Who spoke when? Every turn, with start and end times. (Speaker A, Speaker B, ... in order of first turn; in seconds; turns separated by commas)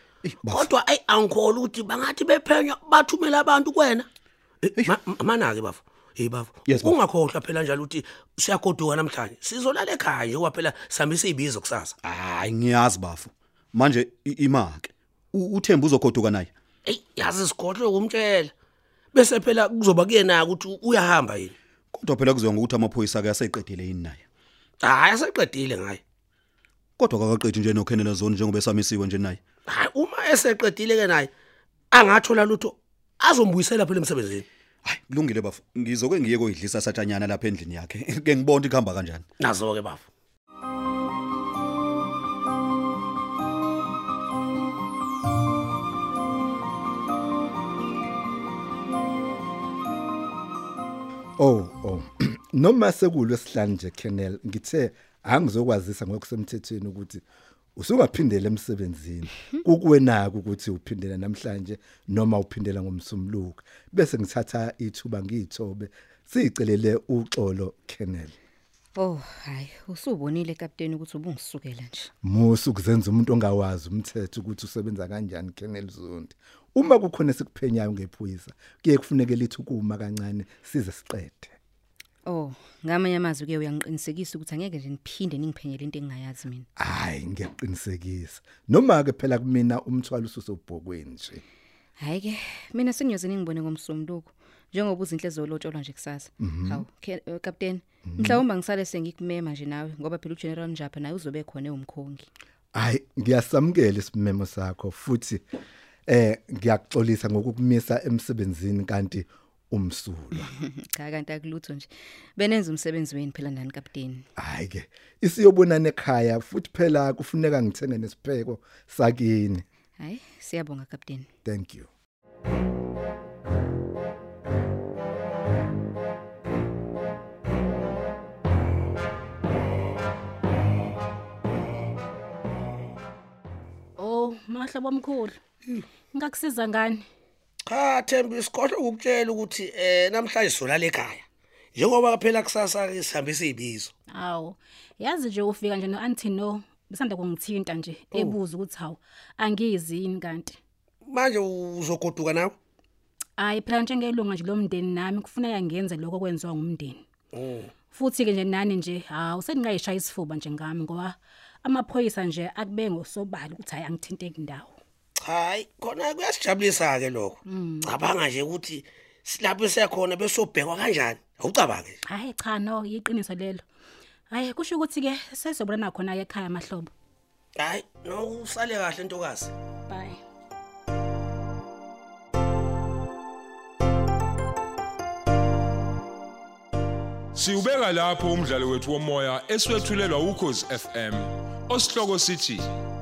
Speaker A: 0.2-0.7, Speaker B: 0.5-4.1, Speaker B: 4.6-11.9, Speaker A: 6.7-7.0, Speaker A: 12.0-16.5, Speaker B: 16.9-18.5, Speaker B: 19.1-21.5, Speaker A: 21.9-24.2, Speaker B: 24.8-26.0, Speaker A: 27.0-29.4, Speaker B: 29.7-31.3, Speaker B: 31.9-34.4, Speaker A: 34.8-39.2, Speaker B: 39.4-40.0, Speaker C: 51.4-57.2, Speaker C: 57.8-68.3, Speaker D: 69.0-72.1, Speaker C: 72.2-81.5, Speaker D: 82.2-86.7, Speaker C: 86.8-91.4, Speaker D: 92.0-102.3, Speaker C: 96.4-96.8, Speaker C: 98.0-98.4, Speaker C: 102.7-105.4, Speaker C: 106.1-110.5, Speaker D: 110.5-114.2, Speaker C: 114.4-119.6, Speaker D: 120.0-121.3, Speaker C: 121.4-121.9, Speaker E: 134.0-135.4, Speaker E: 136.1-137.0, Speaker B: 137.7-141.2, Speaker B: 141.7-143.9, Speaker E: 144.1-150.6, Speaker B: 148.1-148.4, Speaker B: 151.1-152.5, Speaker E: 153.4-157.0, Speaker B: 157.3-157.7, Speaker E: 157.9-164.7, Speaker B: 165.2-172.0, Speaker E: 167.5-167.9, Speaker E: 172.1-173.6, Speaker E: 174.3-176.9, Speaker B: 177.6-179.5, Speaker E: 179.9-180.2, Speaker F: 187.3-192.7